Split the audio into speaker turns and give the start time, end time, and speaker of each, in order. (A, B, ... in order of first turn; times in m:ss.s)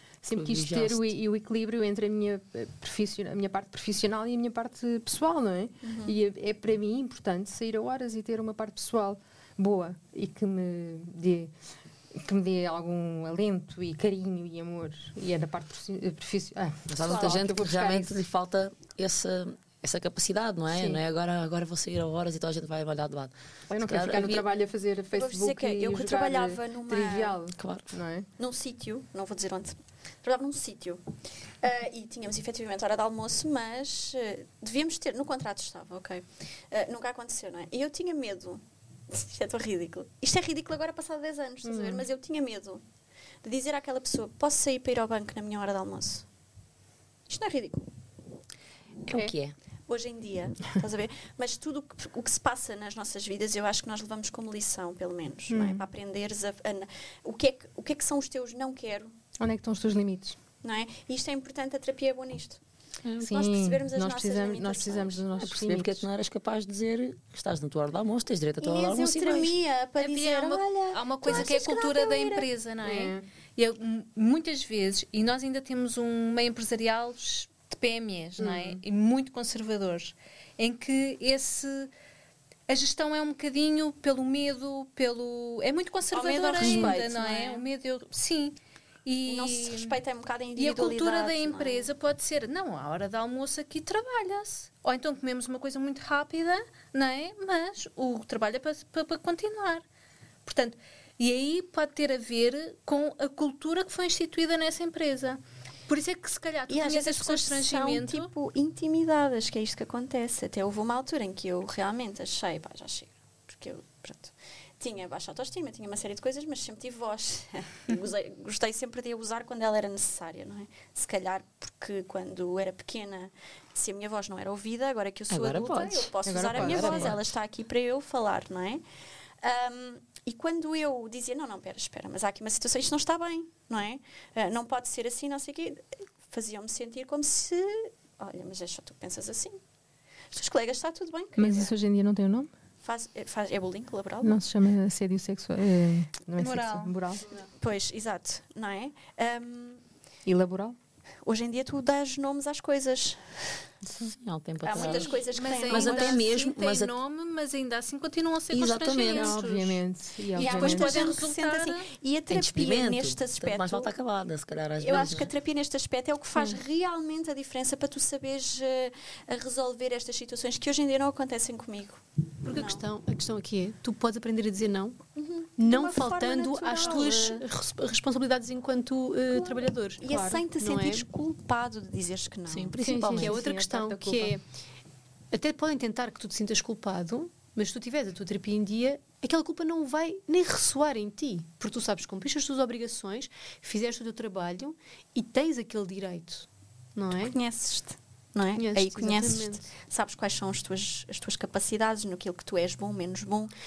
0:00.2-0:11.5 A
0:00.3-0:01.1 B
0:05.8-0:06.2 C
0:12.1-0:18.2 A
0:16.9-0:23.3 B
0:17.0-0:17.4 C
0:20.7-0:21.0 A
0:23.7-0:28.3 A
0:23.8-0:24.4 B
0:25.1-0:27.4 C
0:27.6-0:27.9 B
0:28.4-0:42.8 C
0:41.6-0:42.0 A
0:43.4-0:46.2 C
0:47.3-0:47.9 C
0:49.0-0:49.5 B
0:49.9-0:59.1 C
0:55.5-0:55.8 A
0:59.4-1:00.4 A
1:00.6-1:02.6 C
1:03.0-1:03.3 B
1:03.2-1:06.1 A
1:03.2-1:05.2 C
1:05.4-1:09.6 B
1:08.6-1:12.5 C
1:10.0-1:21.9 D
1:12.8-1:13.2 A
1:18.4-1:18.8 A
1:22.7-1:30.0 D
1:26.1-1:27.6 C
1:26.6-1:27.0 A
1:29.2-1:31.9 C
1:30.6-1:39.8 D
1:40.4-1:48.3 D
1:46.7-2:08.8 C
2:05.3-2:07.2 B
2:06.2-2:07.2 A
2:09.4-2:19.6 C
2:20.3-2:21.7 C
2:21.4-2:22.5 A
2:22.8-2:24.4 C
2:24.2-2:27.2 A
2:26.4-2:26.9 D
2:27.2-2:29.8 C
2:30.2-2:30.8 A
2:31.2-2:33.6 C
2:33.8-2:34.1 A
2:34.0-2:36.9 B
2:34.6-2:36.3 C
2:34.8-2:39.8 D
2:38.5-2:39.4 B
2:39.1-2:41.1 A
2:40.4-2:43.9 C
2:40.4-2:41.9 D
2:42.3-2:45.3 B
2:44.8-2:52.8 C
2:52.4-2:55.0 E
2:55.2-2:57.4 C
2:55.6-3:01.0 E
2:59.3-3:02.7 C
3:02.5-3:03.4 B
3:02.8-3:04.4 A
3:03.1-3:04.4 E
3:05.3-3:17.3 E
3:17.1-3:23.5 C
3:18.6-3:19.6 E